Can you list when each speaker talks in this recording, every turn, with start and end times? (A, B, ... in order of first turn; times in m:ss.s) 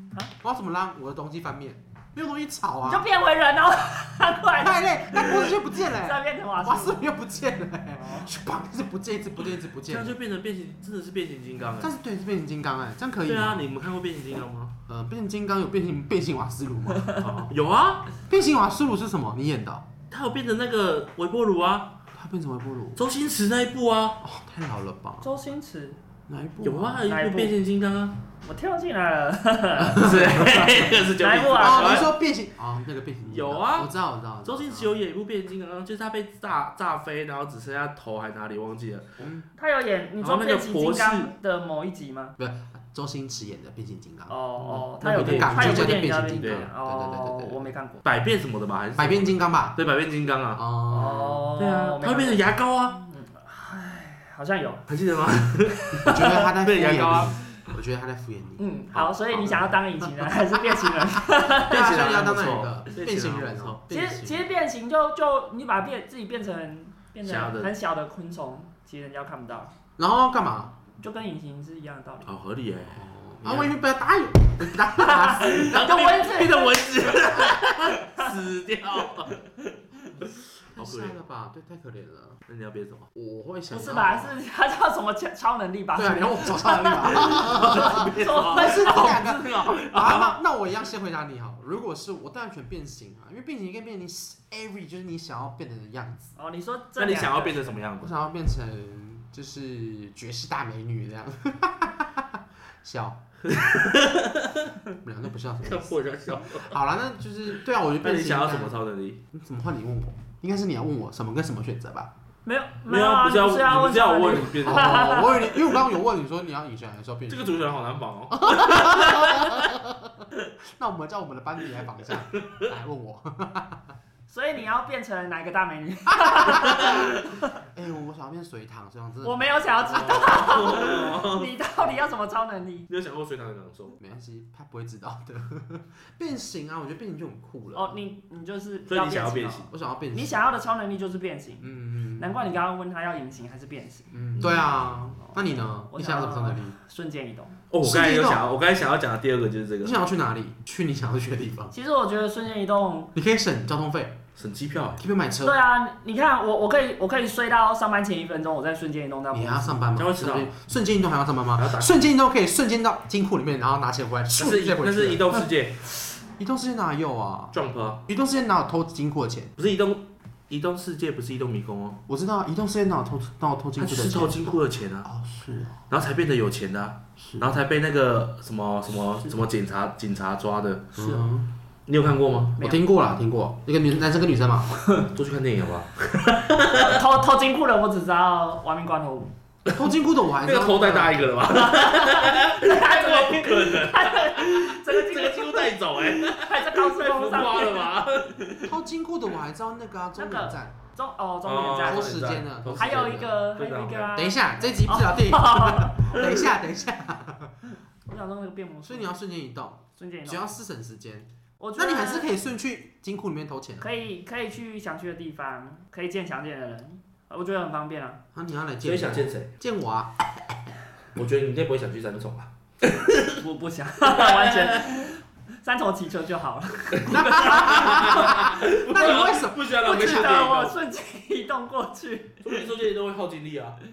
0:00.4-0:03.0 A
0:02.8-0:07.1 B
0:04.5-0:10.2 A
0:07.9-0:08.3 B
0:09.9-0:11.9 C
0:11.8-0:13.7 A
0:13.3-0:14.7 C
0:14.9-0:17.2 A
0:17.2-0:18.1 C
0:18.3-0:19.9 A
0:20.1-0:22.0 C
0:22.1-0:23.0 A
0:23.0-0:24.2 C
0:24.2-0:25.3 A
0:25.2-0:26.0 B
0:26.3-0:27.1 A
0:26.6-0:28.2 C
0:27.0-0:27.5 B
0:28.4-0:32.0 B
0:29.8-0:32.1 C
0:31.6-0:34.9 A
0:33.3-0:33.9 C
0:34.4-0:39.1 C
0:39.2-0:39.5 A
0:39.6-0:42.4 B
0:40.2-0:41.3 C
0:42.4-0:44.4 A
0:44.3-0:48.0 B
0:44.6-0:46.7 C
0:45.0-0:47.6 A
0:48.0-0:50.6 C
0:49.0-0:49.8 A
0:50.5-0:51.5 A
0:50.9-0:54.8 B
0:51.6-0:53.0 C
0:54.9-0:57.4 C
0:55.8-0:56.4 B
0:56.0-1:04.4 A
0:58.6-1:02.1 B
1:01.6-1:03.8 C
1:03.9-1:09.7 B
1:07.2-1:07.7 C
1:10.0-1:10.8 A
1:11.0-1:12.3 B
1:12.2-1:13.7 C
1:12.9-1:16.0 A
1:15.0-1:16.9 B
1:15.4-1:21.2 C
1:17.9-1:18.3 B
1:20.7-1:22.4 A
1:22.5-1:23.1 C
1:23.1-1:24.4 A
1:23.7-1:29.1 B
1:25.9-1:36.3 A
1:27.1-1:30.4 C
1:36.4-1:37.8 B
1:37.0-1:38.2 C
1:38.0-1:43.2 A
1:43.4-1:44.7 C
1:45.0-1:48.8 A
1:45.6-1:46.7 C
1:48.0-1:49.2 C
1:49.3-1:52.1 A
1:52.4-1:55.6 B
1:52.9-1:55.2 C
1:54.4-1:57.5 A
1:57.3-1:59.7 C
1:58.3-2:03.8 A
2:04.3-2:07.2 B
2:06.1-2:10.9 A
2:09.2-2:12.9 B
2:10.2-2:11.5 C
2:12.9-2:14.0 C
2:14.0-2:18.0 A
2:17.7-2:24.1 B
2:18.9-2:19.7 C
2:19.7-2:20.4 A
2:21.6-2:22.3 A
2:24.1-2:26.8 A
2:25.2-2:27.6 B
2:27.7-2:30.0 C
2:27.8-2:28.4 A
2:29.8-2:31.7 A
2:31.7-2:33.1 B
2:33.1-2:34.2 A
2:34.4-2:35.0 C
2:35.0-2:35.6 A
2:35.4-2:39.8 B
2:39.3-2:45.4 A
2:40.0-2:40.5 C
2:41.6-2:42.0 C
2:44.4-2:45.8 C
2:46.4-2:47.5 A
2:47.5-2:48.0 C
2:48.1-2:49.5 A
2:49.6-2:52.0 C
2:52.1-2:54.4 A
2:53.8-2:55.1 C
2:55.0-2:55.8 A
2:55.9-3:01.0 C
2:57.2-2:57.4 A
3:00.9-3:01.5 A
3:01.9-3:02.5 C
3:02.6-3:04.8 A
3:04.8-3:05.1 B
3:05.1-3:07.0 C
3:06.8-3:09.3 B
3:09.7-3:11.5 A
3:10.4-3:18.7 C
3:11.6-3:17.9 B
3:18.6-3:20.8 A
3:20.2-3:22.2 B
3:21.4-3:24.2 C
3:21.8-3:23.4 A
3:22.8-3:26.4 B
3:24.1-3:27.5 A
3:26.0-3:26.3 C
3:28.1-3:29.1 B
3:28.8-3:33.9 A
3:30.0-3:30.5 B
3:31.6-3:32.3 B
3:33.8-3:38.2 B
3:38.3-3:40.5 A
3:38.8-3:39.5 C
3:41.2-3:43.4 C
3:43.4-3:52.6 B
3:44.0-3:44.9 C
3:47.0-3:50.8 C
3:47.0-3:50.3 A
3:52.4-3:53.8 C